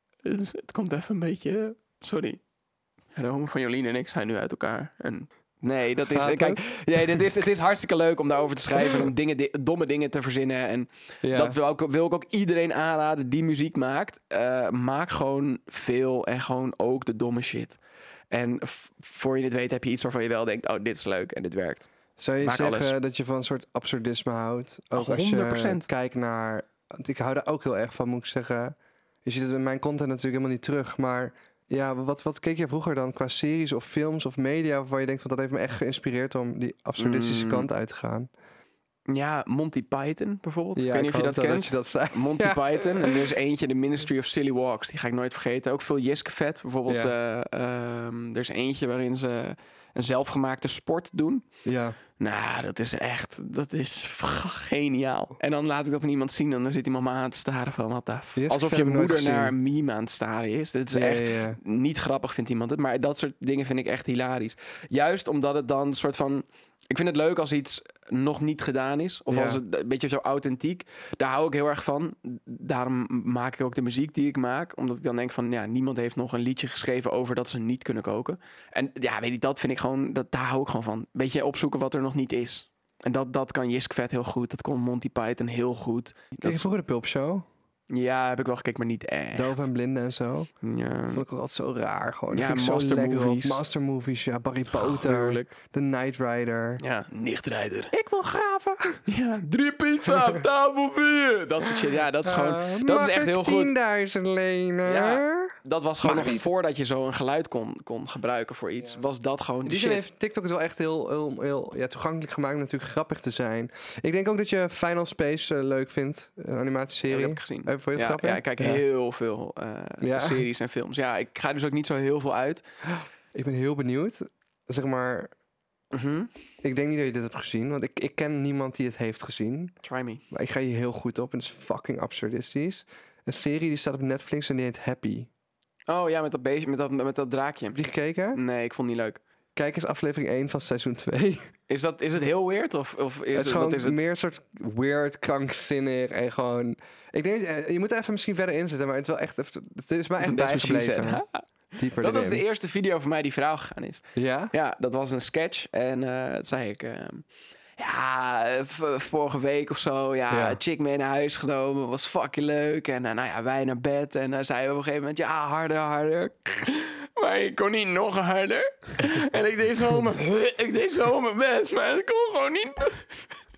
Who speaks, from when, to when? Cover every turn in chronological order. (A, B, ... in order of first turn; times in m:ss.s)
0:00.2-0:02.4 A
0:03.2-0:17.8 A
0:06.0-0:07.4 B
0:11.2-0:11.6 B
0:18.3-0:21.9 A
0:22.2-0:38.3 B
0:22.4-0:23.0 A
0:25.0-0:25.9 A
0:37.0-0:37.7 A
0:39.1-0:51.4 A
0:40.8-0:43.3 B
0:46.9-0:47.1 B
0:51.6-0:52.0 B
0:52.2-1:26.7 A
0:58.4-0:59.6 B
1:00.9-1:01.6 B
1:09.3-1:09.6 B
1:26.4-1:27.5 B
1:27.9-1:29.7 A
1:29.4-1:30.5 B
1:30.6-1:31.2 A
1:31.1-1:36.8 B
1:32.3-1:33.6 A
1:34.7-1:35.5 A
1:36.8-1:37.9 A
1:37.9-1:39.0 B
1:39.1-1:43.7 A
1:40.1-1:40.4 B
1:41.7-1:46.5 B
1:44.8-1:50.1 A
1:49.6-1:58.8 B
1:57.1-2:02.6 A
2:00.0-2:00.5 B
2:02.9-2:05.3 B
2:05.9-2:06.3 A
2:06.6-2:09.7 B
2:09.8-2:10.2 A
2:10.3-2:15.3 B
2:15.9-2:17.8 A
2:17.7-2:18.4 B
2:18.3-2:19.2 A
2:19.6-2:21.5 B
2:21.7-2:24.0 A
2:23.3-2:31.2 B
2:30.2-2:37.2 A
2:31.8-2:32.4 B
2:34.2-2:34.5 B
2:37.8-2:53.2 A
2:40.3-2:40.6 B